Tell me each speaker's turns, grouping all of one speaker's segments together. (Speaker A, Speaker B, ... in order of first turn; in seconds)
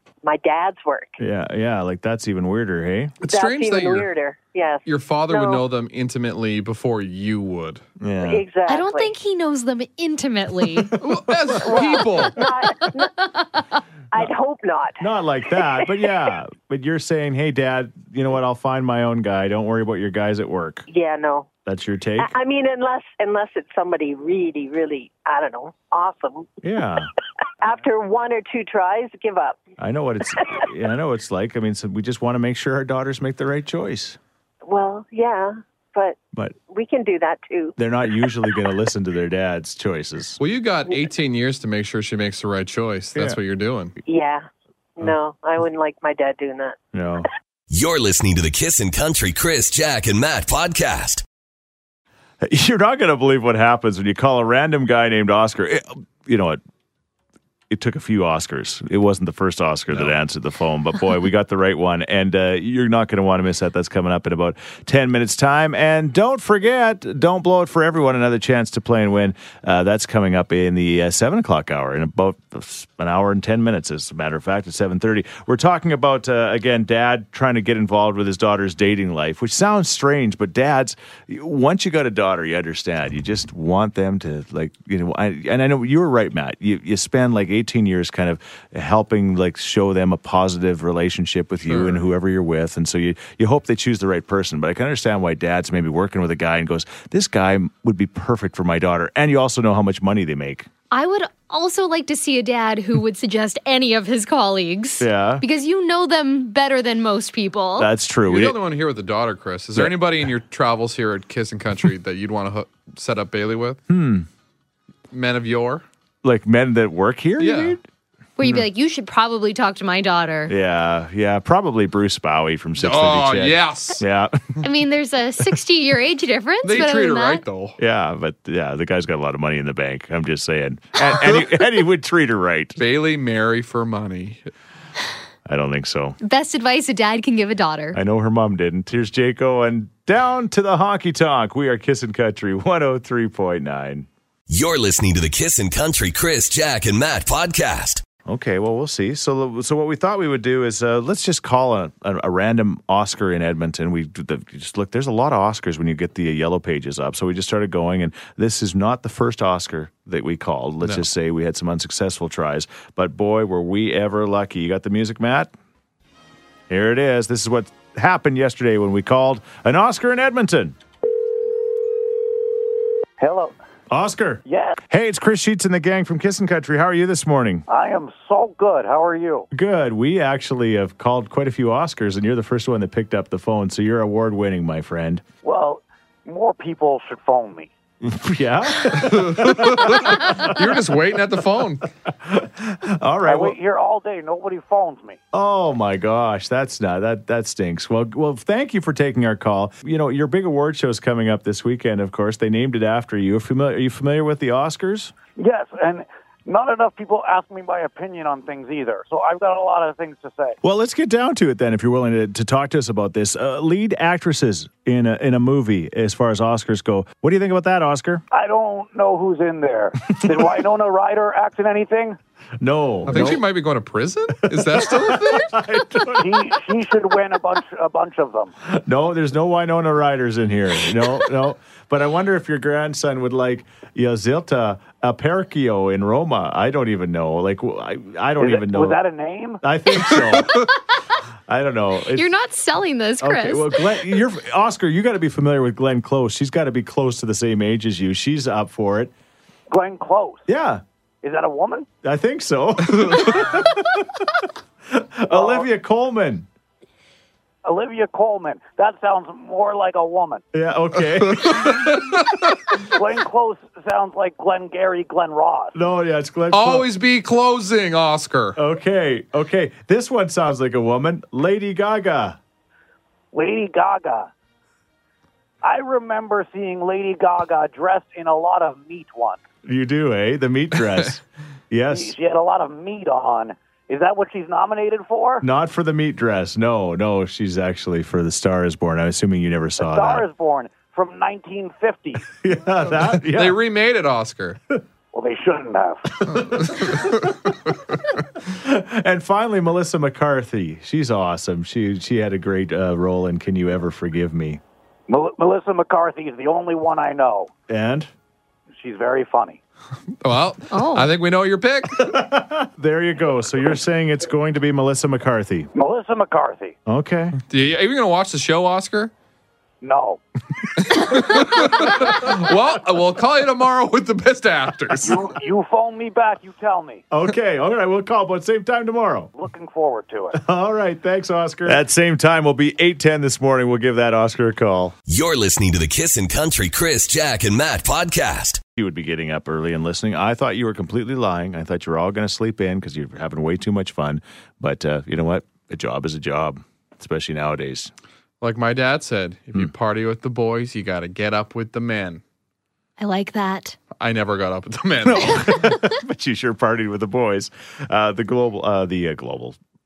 Speaker A: 0.2-1.1, 3.2-5.6, 8.2-9.1, 11.6-13.3, 14.1-15.0, 15.6-15.9, 20.9-21.5, 22.2-26.5, 27.6-29.6, 34.6-38.4, 44.0-44.5, 45.0-46.8
Speaker B: 1.2-3.1, 8.0-8.4, 11.3-11.6, 15.0-20.9, 21.6-22.3, 26.6-27.1, 29.8-34.2, 37.8-40.4, 46.9-47.3, 52.4-56.6, 57.7-100.7, 105.0-105.4, 107.8-108.6, 113.9-114.3, 116.2-117.8, 120.5-124.6, 127.8-132.8, 135.4-136.2, 137.9-144.1, 148.2-165.5, 166.7-170.8, 173.9-177.6, 179.5-185.2, 188.0-190.9, 192.1-193.6, 195.3-205.1, 210.6-218.2, 220.1-220.5, 222.6-223.4, 224.5-226.6, 228.7-239.0, 239.6-240.6, 241.5-242.3, 243.2-249.1, 250.5-250.8, 252.0-256.5, 260.5-261.9, 265.7-266.9, 268.6-272.4, 279.6-282.1, 285.4-290.2, 292.4-293.6, 296.2-297.5, 298.4-304.6, 307.7-308.1, 311.9-315.7, 316.9-317.4, 321.6-322.3, 327.1-329.3, 330.3-334.9, 338.8-347.9, 355.0-359.6
Speaker C: 3.2-4.1, 4.8-7.8, 11.0-12.4, 40.4-43.9, 91.7-92.0, 108.3-113.8, 115.1-115.8, 117.4-117.8, 122.8-124.0, 126.6-127.8, 132.8-134.5, 188.9-191.9, 223.1-225.6, 240.1-240.7, 261.2-262.6, 266.5-268.6, 293.0-294.6, 296.7-297.1, 310.2-312.1, 317.5-319.1, 320.8-325.2, 348.4-352.2, 354.0-355.7
Speaker D: 8.7-10.9, 100.9-107.9, 118.4-120.5, 124.6-127.4, 136.2-138.0, 242.1-243.8, 310.7-311.1, 353.0-353.8
Speaker E: 47.7-51.2, 144.5-148.0, 335.1-338.6
Speaker F: 173.2-173.6, 174.4-174.8, 177.7-179.5, 185.4-187.7, 193.2-195.2, 205.4-210.6, 218.3-222.2, 226.1-228.5, 238.4-239.6, 249.7-250.4, 251.2-251.9, 255.3-255.7, 257.6-260.4, 262.7-265.7, 273.3-274.3, 275.6-279.4, 281.9-285.4, 289.8-292.2, 295.1-296.4, 305.1-307.5, 308.7-309.6, 315.7-316.8, 319.8-320.2, 325.0-327.0, 329.3-330.4